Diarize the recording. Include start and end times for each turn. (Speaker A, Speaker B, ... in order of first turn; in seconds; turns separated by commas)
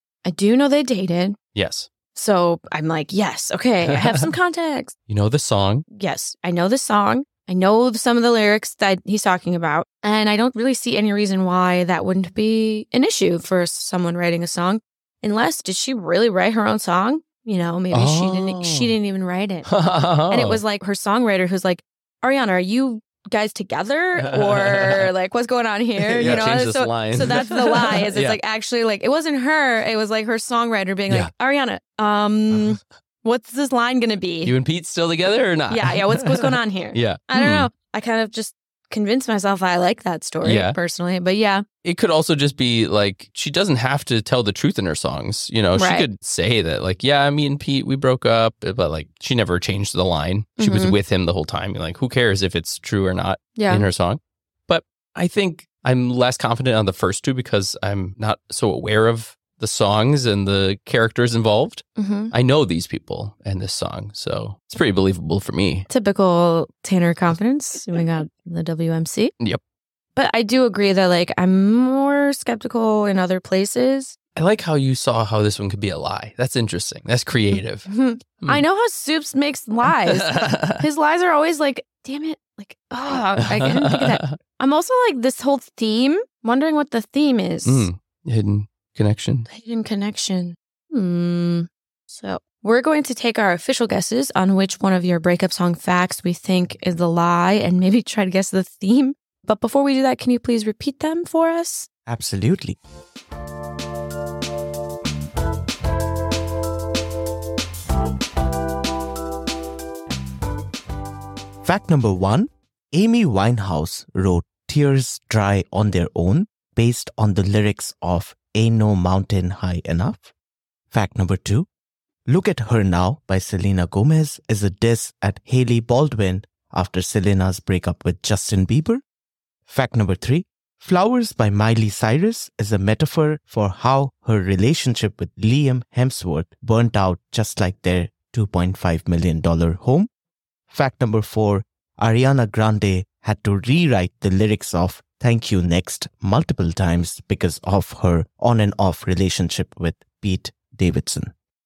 Speaker A: 0.2-1.4, Speaker B: 1.5-1.9, Speaker A: 2.1-4.9, Speaker B: 3.8-4.2, Speaker B: 5.1-5.8, Speaker A: 5.9-19.7, Speaker B: 17.9-19.0, Speaker B: 19.6-20.6, Speaker A: 20.3-34.5, Speaker B: 24.2-25.1, Speaker C: 26.0-26.5, Speaker B: 26.2-28.4, Speaker B: 34.4-37.7, Speaker A: 35.7-41.6, Speaker B: 40.4-40.8, Speaker B: 41.8-65.9, Speaker A: 45.7-46.1, Speaker A: 50.6-51.0, Speaker A: 53.6-53.9, Speaker A: 62.0-62.3, Speaker A: 65.9-69.3, Speaker A: 70.2-74.2, Speaker B: 74.3-77.9, Speaker A: 77.9-87.9, Speaker B: 79.9-80.8, Speaker B: 83.4-84.3, Speaker B: 87.6-89.5, Speaker A: 89.5-101.9, Speaker C: 102.1-102.8, Speaker C: 111.6-120.3, Speaker C: 120.9-121.7, Speaker C: 122.3-129.0, Speaker C: 129.7-140.1, Speaker C: 140.7-151.3